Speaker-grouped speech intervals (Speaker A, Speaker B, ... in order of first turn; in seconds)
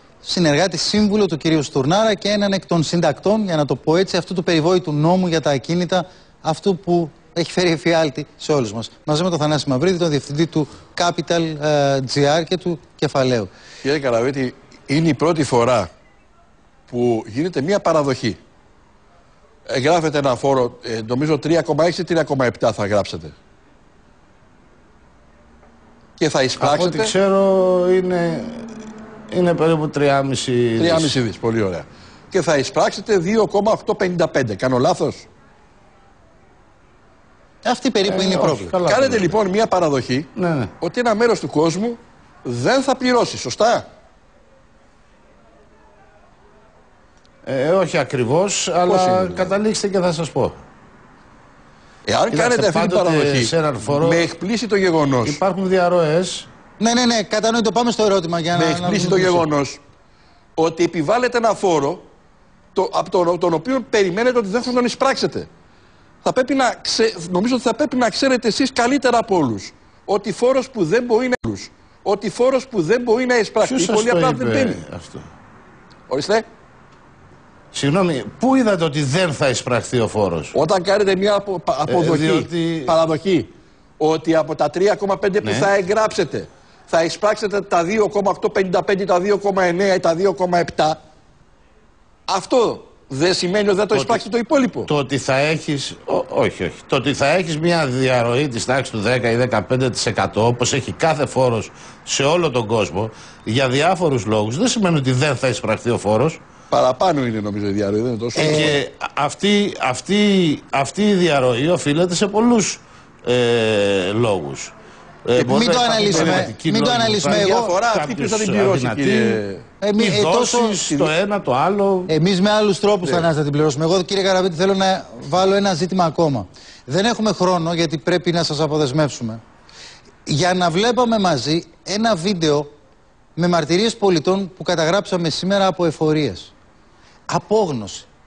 Speaker A: 0.2-13.5, 37.6-38.7, 56.8-59.5, 108.3-108.8, 115.5-117.8, 119.8-120.8, 122.1-129.4, 130.3-132.7, 133.4-136.5, 137.3-138.1
Speaker B: 13.8-15.9, 16.9-18.4, 19.7-23.4, 26.2-27.1, 30.8-35.3, 38.9-40.3, 40.8-43.9, 48.9-49.5, 52.1-55.4, 58.5-59.8, 60.6-62.0, 62.8-65.5, 66.2-74.8, 76.1-76.5, 80.5-91.0, 92.3-94.9, 106.7-108.8, 115.4-116.5, 117.3-119.6
Speaker C: 26.6-28.6, 29.3-31.1, 38.0-39.4, 40.4-40.7, 47.5-50.6, 52.3-54.3, 55.2-56.5, 73.6-75.3, 77.7-80.5, 81.9-83.0, 85.4-85.7, 93.9-94.2, 94.9-106.4, 108.4-114.7, 115.3-119.4, 120.0-122.1